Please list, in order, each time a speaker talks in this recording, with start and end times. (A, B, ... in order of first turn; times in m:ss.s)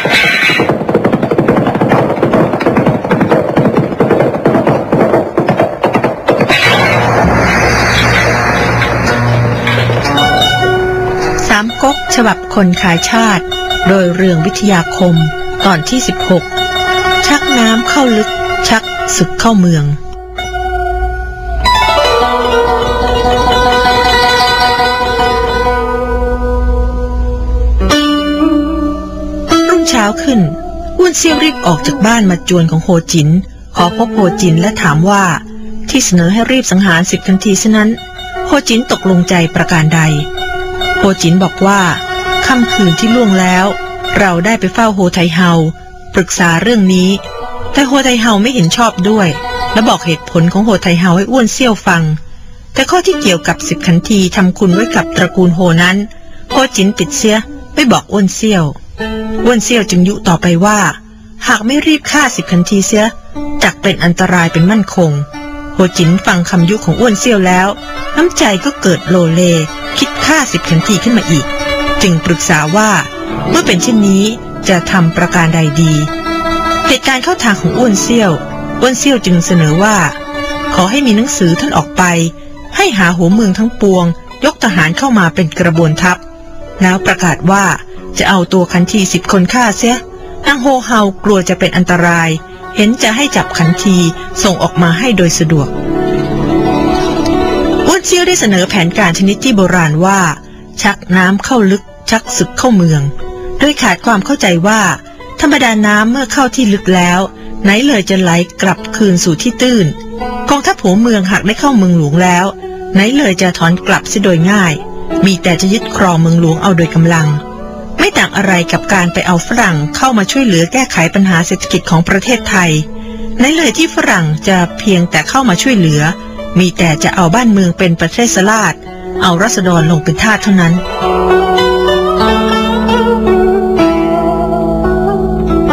0:11.4-0:16.5 A
0:17.2-0:20.0 A
0:29.6-0:40.3 A
0:41.0-0:47.2 A
0:47.7-0:52.2 A
0:52.7-0:58.8 A
0:59.4-1:11.5 A
1:12.0-1:16.1 A
1:16.8-1:20.2 A
1:20.7-1:26.2 A
1:26.8-1:35.7 A
1:37.8-1:49.9 A
1:50.4-1:57.4 A
1:58.0-2:02.8 A
2:03.4-2:10.8 A